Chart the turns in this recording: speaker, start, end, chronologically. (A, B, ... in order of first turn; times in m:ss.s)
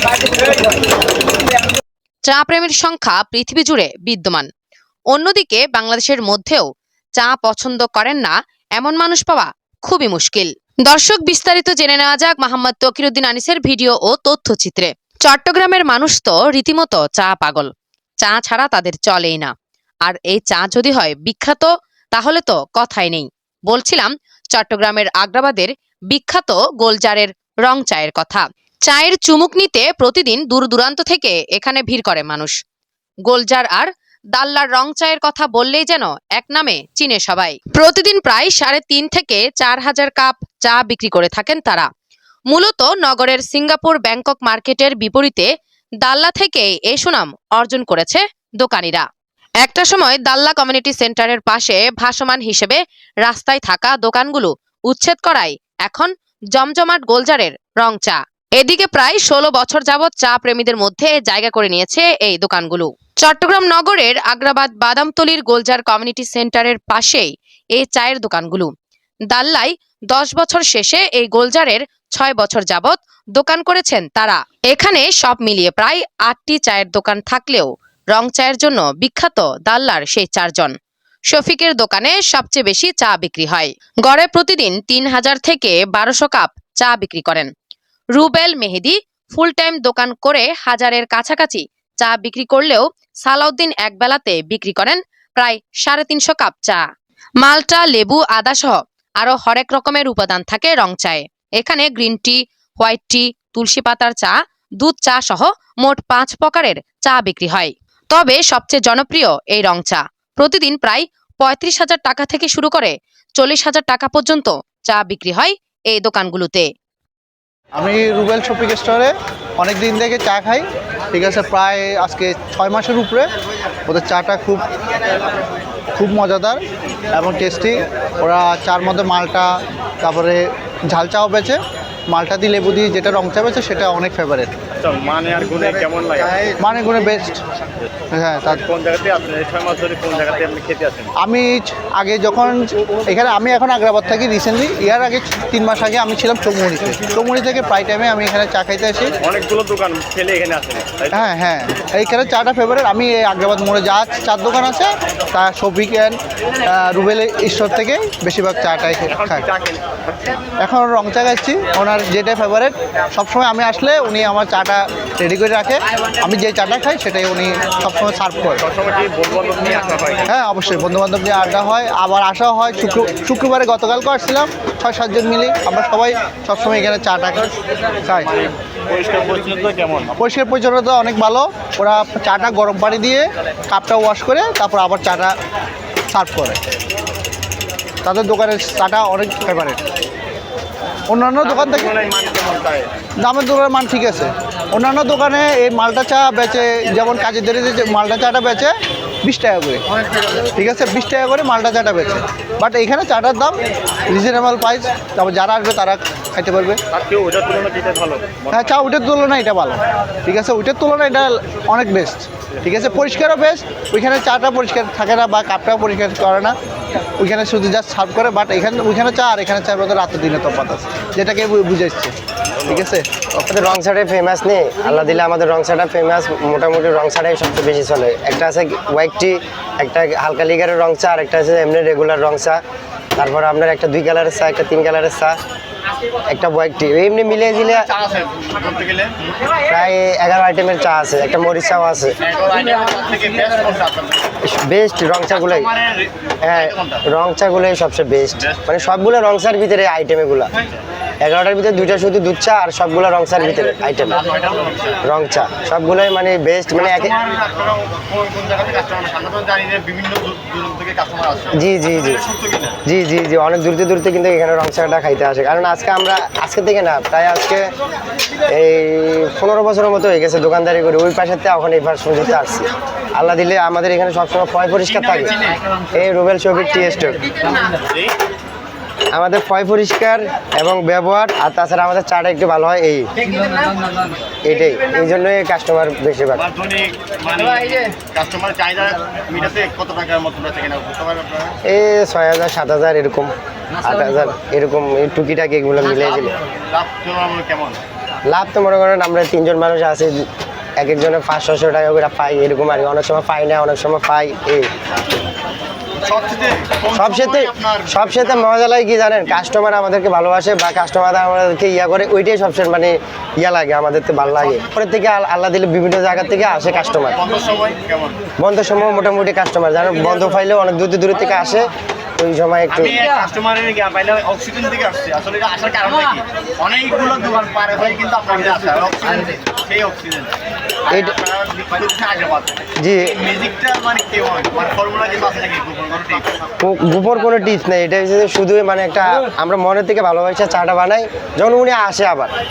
0:02.3-0:04.5 A
0:05.1-0:06.6 A
0:07.2-0:17.7 A
0:18.2-0:19.5 A
0:20.1-0:32.5 A
0:33.3-0:41.9 A
0:42.5-0:45.5 A
0:46.0-0:49.1 A
0:49.6-1:08.7 A
1:09.3-1:20.8 A
1:21.3-1:27.5 A
1:28.2-1:36.8 A
1:37.4-1:56.7 A
1:57.7-2:03.3 B
2:03.9-2:04.6 B
2:06.0-2:06.6 B
2:07.1-2:14.5 B
2:14.8-2:16.6 C
2:16.6-2:17.4 B
2:18.1-2:18.6 B
2:18.6-2:21.1 C
2:21.2-2:29.2 B
2:29.2-2:31.2 C
2:31.1-2:39.5 B
2:39.1-2:40.4 C
2:40.6-2:48.6 B
2:48.6-2:50.3 C
2:50.3-2:57.5 B
2:58.1-2:58.3 B
2:58.1-3:00.2 C
3:00.2-3:05.3 B
3:06.1-3:06.6 B
3:08.0-3:09.8 B
3:11.1-3:11.9 B
3:11.4-3:12.9 C
3:13.2-3:19.8 B
3:20.5-3:26.8 B
3:26.9-3:28.6 C
3:28.5-3:36.6 B
3:37.2-3:43.1 B
3:43.4-3:52.6 D
3:53.2-3:55.4 D
3:56.3-3:57.9 D
3:57.4-3:59.2 C
3:59.7-4:02.2 D
4:02.2-4:04.4 C
4:04.4-4:05.7 D
4:05.3-4:07.0 C
4:06.4-4:10.5 D
4:08.4-4:08.8 C
4:11.2-4:14.2 D
4:13.8-4:15.0 C
4:15.0-4:17.1 D
4:16.8-4:22.8 C
4:21.5-4:22.2 D
4:22.8-4:27.7 D
4:28.4-4:35.4 D
4:34.9-4:35.6 C
4:35.9-4:37.2 D
4:37.8-4:38.2 C
4:39.1-4:43.1 D
4:44.4-4:46.4 D
4:46.4-4:51.6 C
4:51.6-4:56.3 D
4:56.0-4:57.8 C
4:58.3-5:04.7 D
5:06.0-5:08.5 C
5:06.9-5:17.2 D
5:14.3-5:14.7 C
5:16.7-5:18.2 C
5:18.4-5:23.0 D
5:22.7-5:30.3 C
5:30.9-5:36.4 C
5:30.9-5:31.2 D
5:32.8-5:33.2 D
5:36.6-5:42.3 D